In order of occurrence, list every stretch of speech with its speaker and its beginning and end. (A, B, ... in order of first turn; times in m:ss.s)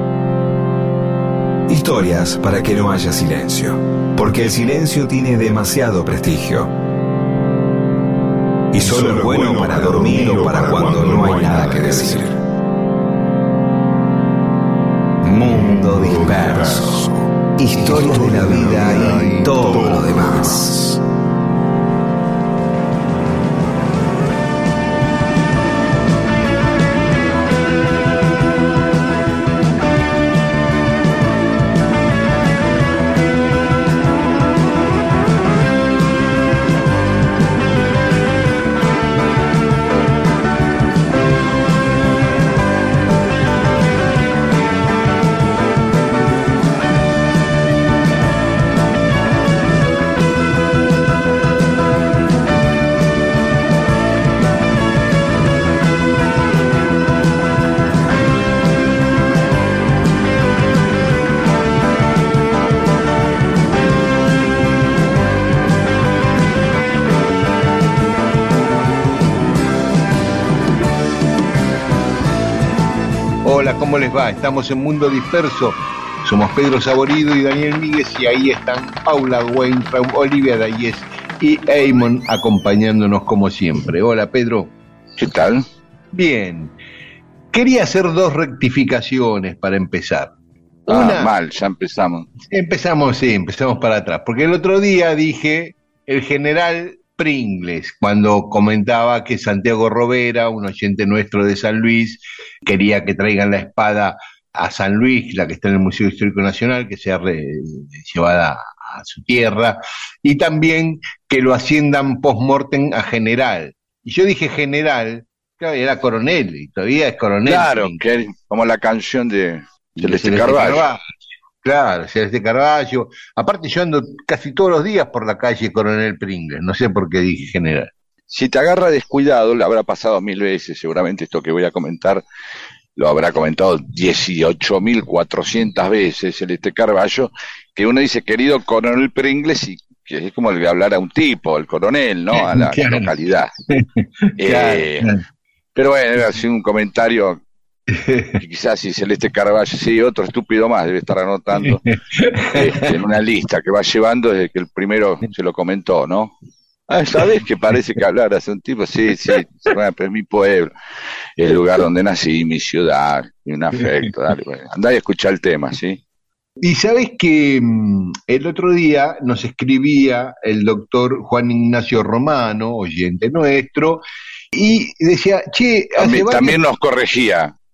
0:01.7-0:06.7 A
0:08.7-0:12.4 A
0:15.2-0:21.0 A
1:13.4-1:24.7 B
1:25.2-1:25.6 C
1:26.1-1:26.7 B
1:27.5-1:30.3 B
1:30.9-1:31.3 B
1:30.9-1:32.3 C
1:32.4-1:58.0 B
1:57.5-2:00.9 C
2:00.0-2:01.0 B
2:01.6-2:07.9 B
2:08.3-2:12.2 C
2:13.0-2:23.5 C
2:22.3-2:23.1 B
2:23.7-2:25.2 B
2:24.4-2:25.1 C
2:25.8-2:27.4 C
2:27.9-2:28.4 B
2:28.4-2:31.8 C
2:31.6-2:33.0 B
2:32.5-2:36.3 C
2:36.9-2:40.7 C
2:41.4-2:46.0 C
2:46.6-2:56.6 B
2:56.0-2:57.5 C